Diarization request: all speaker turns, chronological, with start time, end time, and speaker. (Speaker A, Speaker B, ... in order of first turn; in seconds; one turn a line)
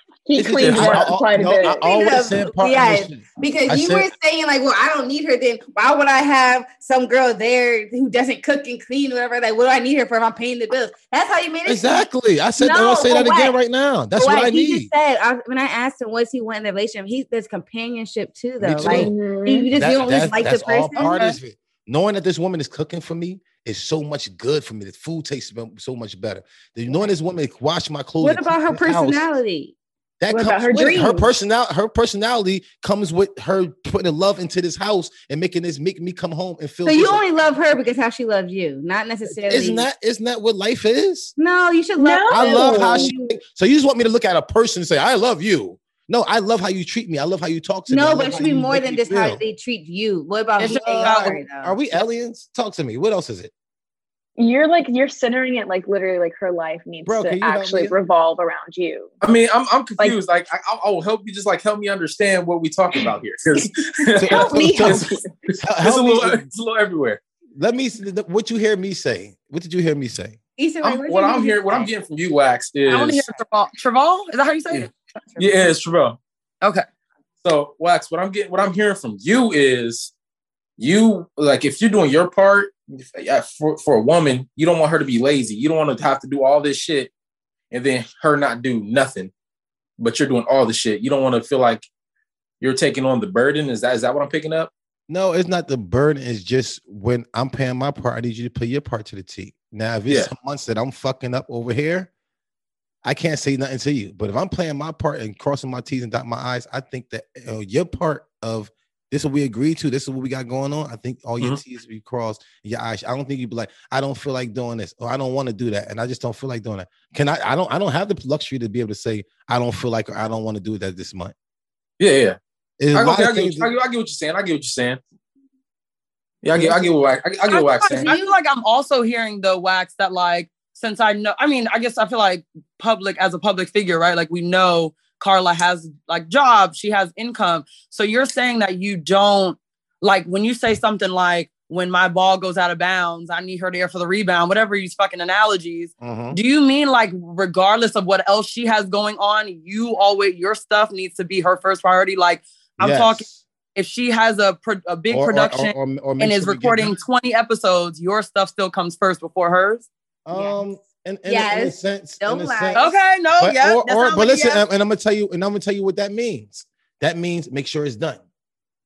Speaker A: 0.3-1.9
Speaker B: 0.4-4.1
Speaker C: 0.6-1.1
Speaker D: 1.6-13.6
Speaker B: 11.7-14.9
Speaker D: 14.2-21.3
Speaker B: 18.6-19.1
Speaker A: 18.8-19.7
Speaker B: 19.8-29.3
Speaker D: 28.2-29.7
Speaker B: 30.2-37.2
Speaker A: 30.3-31.3
Speaker D: 36.9-39.9
Speaker B: 39.4-41.3
Speaker D: 41.4-43.4
Speaker A: 42.0-43.1
Speaker B: 42.3-49.4
Speaker D: 47.9-51.8
Speaker E: 50.6-51.4
Speaker B: 50.9-53.5
Speaker A: 54.4-59.1
Speaker B: 57.0-58.0
Speaker C: 59.2-67.2
Speaker B: 64.2-65.0
Speaker A: 64.2-65.3
Speaker B: 65.6-66.5
Speaker B: 67.6-70.4
Speaker D: 70.6-71.9
Speaker C: 70.8-73.2
Speaker E: 72.9-74.9
Speaker C: 74.7-76.2
Speaker C: 77.4-80.1
Speaker C: 80.8-87.1
Speaker C: 87.7-89.3
Speaker C: 90.0-91.9
Speaker C: 92.6-94.7
Speaker B: 95.1-102.1
Speaker B: 103.0-121.3
Speaker C: 122.0-122.4
Speaker B: 122.8-123.7
Speaker C: 122.9-125.0
Speaker C: 126.4-128.1
Speaker B: 126.5-126.9
Speaker D: 127.5-128.3
Speaker E: 128.0-159.9
Speaker B: 146.0-146.4
Speaker B: 152.8-153.4
Speaker B: 155.1-157.0
Speaker B: 160.3-168.2
Speaker D: 160.3-160.6
Speaker D: 161.3-162.9
Speaker E: 162.8-164.6